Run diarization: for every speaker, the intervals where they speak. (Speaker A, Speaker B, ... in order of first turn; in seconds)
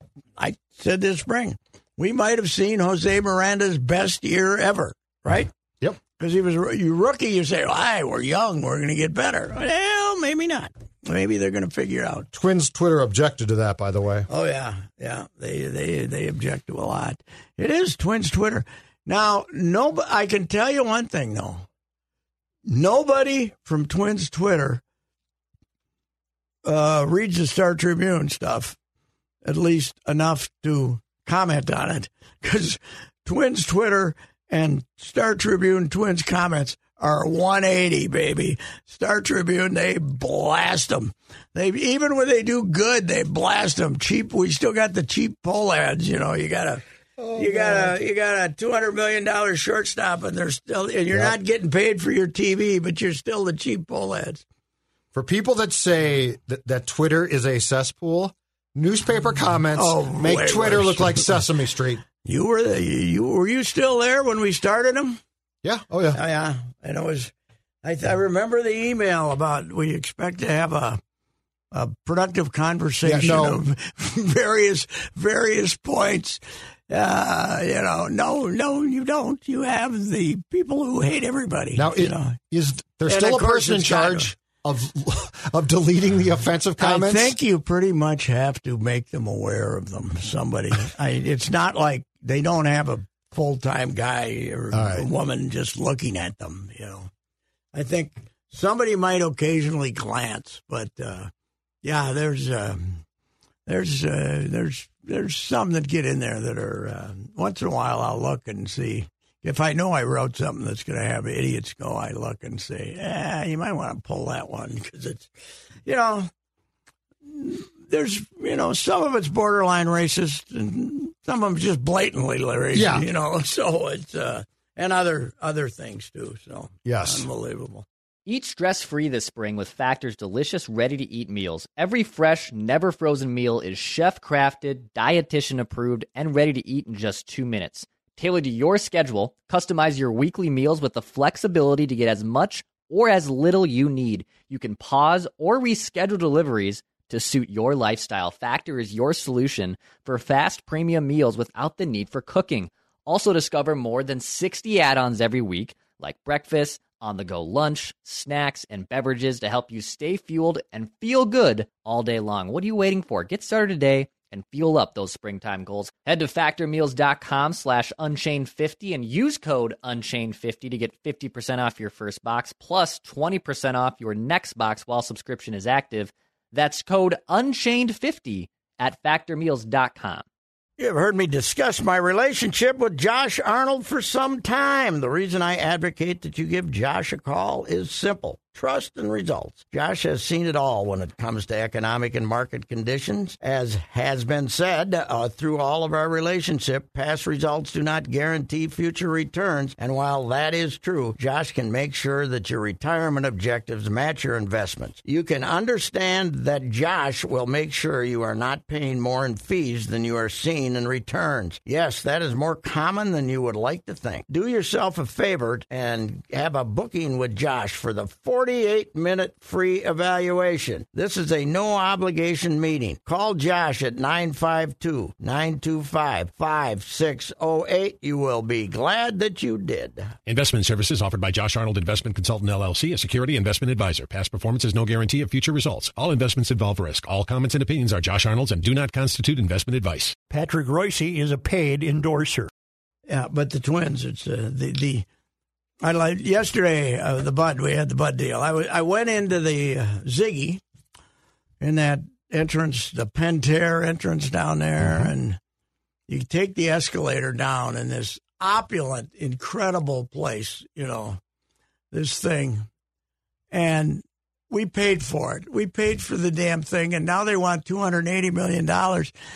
Speaker A: 0.4-5.5, 6.2-12.3, 14.3-21.7, 22.7-24.8, 26.6-28.8, 29.4-46.8, 47.3-54.4, 59.8-61.4, 62.2-65.2, 66.1-67.3, 67.8-71.0, 71.7-82.4, 83.0-84.3, 86.8-97.1, 97.7-101.3, 101.8-103.0, 103.7-115.3, 115.9-116.3, 117.2-127.8, 180.8-230.1, 243.1-245.1, 245.8-250.6, 251.6-255.4, 256.1-261.2, 261.9-262.7, 263.5-269.1
Speaker B: 12.3-14.3, 47.2-48.0, 55.1-62.0, 65.6-66.2, 73.0-73.6, 81.8-87.3, 94.7-95.1, 122.7-123.1, 126.8-127.3, 254.8-255.1
Speaker C: 128.3-180.2
Speaker D: 230.3-240.2
Speaker E: 240.3-242.5